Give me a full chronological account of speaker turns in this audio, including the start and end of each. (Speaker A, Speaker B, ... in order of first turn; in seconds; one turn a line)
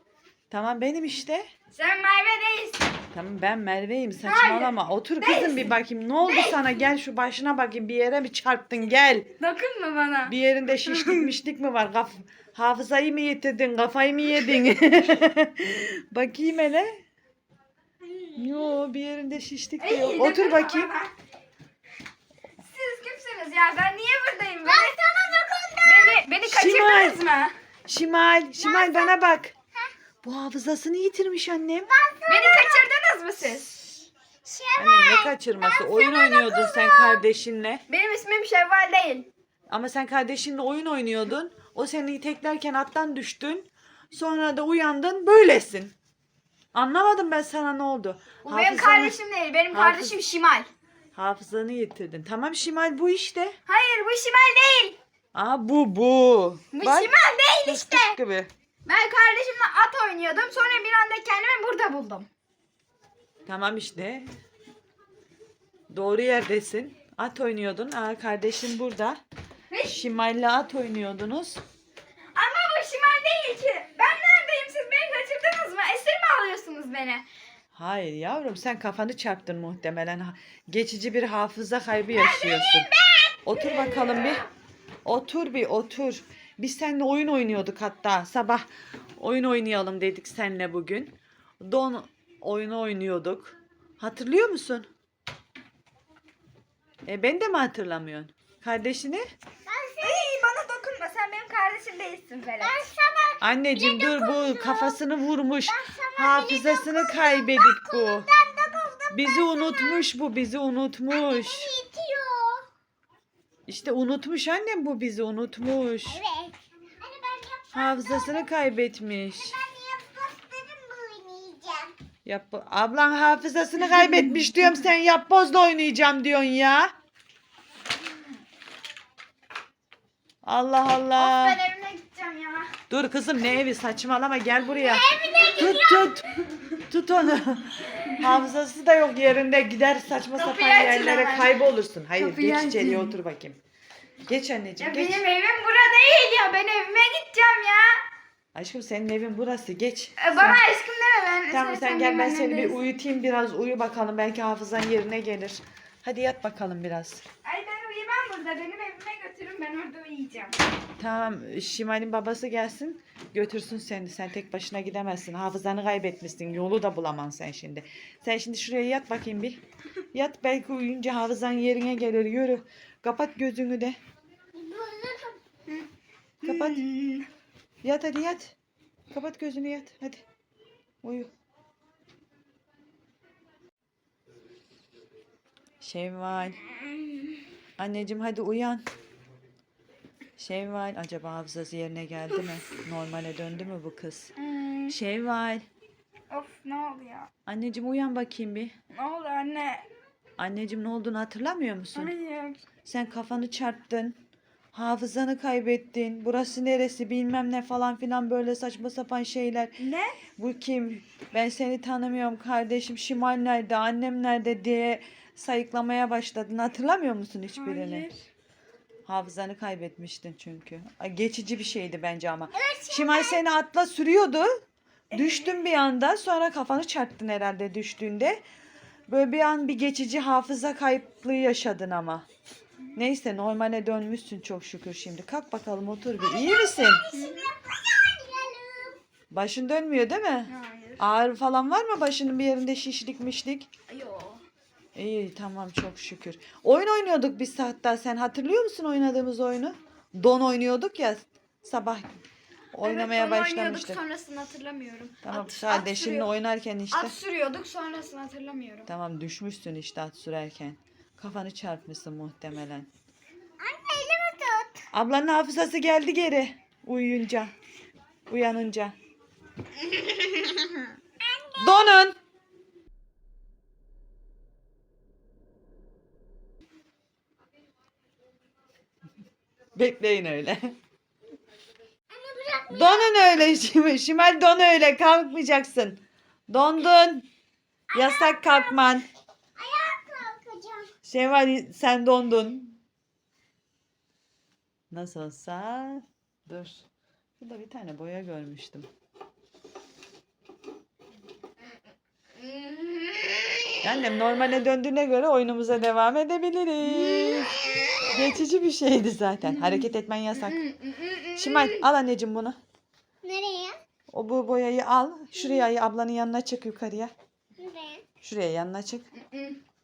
Speaker A: 0.5-1.5
Speaker B: 1.7-2.9
Speaker A: 3.1-9.3
Speaker B: 4.2-5.7
Speaker B: 6.2-6.6
Speaker B: 9.4-10.3
Speaker A: 10.3-17.0
Speaker B: 10.8-11.3
Speaker A: 18.3-20.9
Speaker B: 19.8-21.1
Speaker B: 22.6-24.9
Speaker C: 24.6-26.3
Speaker B: 25.9-27.5
Speaker A: 26.4-27.2
Speaker A: 27.9-29.5
Speaker C: 28.6-29.9
Speaker A: 30.2-31.9
Speaker C: 31.8-32.9
Speaker B: 32.3-33.8
Speaker C: 34.4-37.2
Speaker A: 34.8-37.8
Speaker B: 37.9-39.3
Speaker A: 39.7-45.9
Speaker A: 46.7-49.1
Speaker B: 48.4-50.7
Speaker A: 49.7-50.1
Speaker A: 51.1-53.5
Speaker B: 53.7-55.0
Speaker A: 55.3-57.1
Speaker B: 56.7-58.2
Speaker A: 57.6-58.5
Speaker B: 58.9-62.3
Speaker A: 63.5-64.3
Speaker A: 65.9-69.2
Speaker B: 69.7-70.0
Speaker A: 69.8-71.6
Speaker B: 72.3-77.2
Speaker A: 77.7-82.9
Speaker B: 82.2-82.8
Speaker A: 83.4-84.4
Speaker A: 85.0-88.7
Speaker A: 89.2-94.9
Speaker A: 97.0-99.2
Speaker C: 99.7-100.4
Speaker B: 100.0-102.9
Speaker C: 102.6-105.0
Speaker A: 103.4-108.3
Speaker C: 105.7-110.0
Speaker A: 109.1-111.7
Speaker C: 111.1-112.7
Speaker A: 113.7-116.2
Speaker C: 116.1-118.5
Speaker A: 117.7-119.6
Speaker C: 119.4-121.9
Speaker A: 122.2-126.9
Speaker A: 130.4-131.6
Speaker B: 131.2-132.7
Speaker A: 132.9-143.6
Speaker C: 134.7-136.2
Speaker B: 140.4-143.2
Speaker A: 144.2-145.2
Speaker B: 144.8-148.0
Speaker A: 148.5-150.6
Speaker B: 150.2-152.8
Speaker A: 151.5-157.2
Speaker B: 157.4-160.6
Speaker A: 161.0-169.6
Speaker A: 170.1-174.0
Speaker C: 174.5-175.4
Speaker B: 176.4-177.3
Speaker A: 176.4-176.9
Speaker A: 177.8-178.5
Speaker A: 179.1-180.2
Speaker A: 181.0-181.3
Speaker A: 185.8-186.6
Speaker A: 187.8-188.8
Speaker A: 190.4-194.3
Speaker B: 194.3-194.9
Speaker A: 194.9-195.7
Speaker B: 196.3-197.3
Speaker A: 197.4-198.7
Speaker B: 198.9-199.8
Speaker A: 200.4-202.1
Speaker B: 201.9-202.6
Speaker A: 202.8-204.2
Speaker A: 204.7-209.8
Speaker B: 209.8-210.2
Speaker A: 210.4-218.1
Speaker B: 217.6-218.2
Speaker A: 219.1-224.6
Speaker C: 222.5-223.4
Speaker A: 225.1-228.4
Speaker B: 225.1-225.5
Speaker A: 229.1-232.2
Speaker A: 232.9-237.0
Speaker C: 236.2-239.0
Speaker B: 237.1-237.5
Speaker A: 239.3-243.7
Speaker B: 240.5-241.0
Speaker B: 243.9-244.4
Speaker A: 244.9-252.2
Speaker A: 252.7-254.0
Speaker B: 252.8-256.3
Speaker A: 255.2-257.1
Speaker B: 256.9-258.9
Speaker A: 258.9-262.9
Speaker C: 263.6-264.8
Speaker A: 264.9-267.5
Speaker A: 268.3-268.9
Speaker C: 269.8-272.0
Speaker A: 271.6-272.2
Speaker A: 279.8-280.7
Speaker C: 282.1-283.2
Speaker A: 282.7-287.3
Speaker C: 287.9-289.0
Speaker A: 287.9-289.1
Speaker C: 289.6-290.9
Speaker A: 291.0-292.8
Speaker A: 294.9-296.9
Speaker A: 297.4-298.9
Speaker B: 302.4-303.8
Speaker A: 303.8-310.6
Speaker B: 306.9-308.1
Speaker C: 307.6-308.0
Speaker B: 310.3-311.8
Speaker A: 311.3-312.6
Speaker C: 313.2-313.8
Speaker A: 314.1-317.1
Speaker C: 317.6-318.0
Speaker A: 318.2-319.1
Speaker B: 319.1-319.6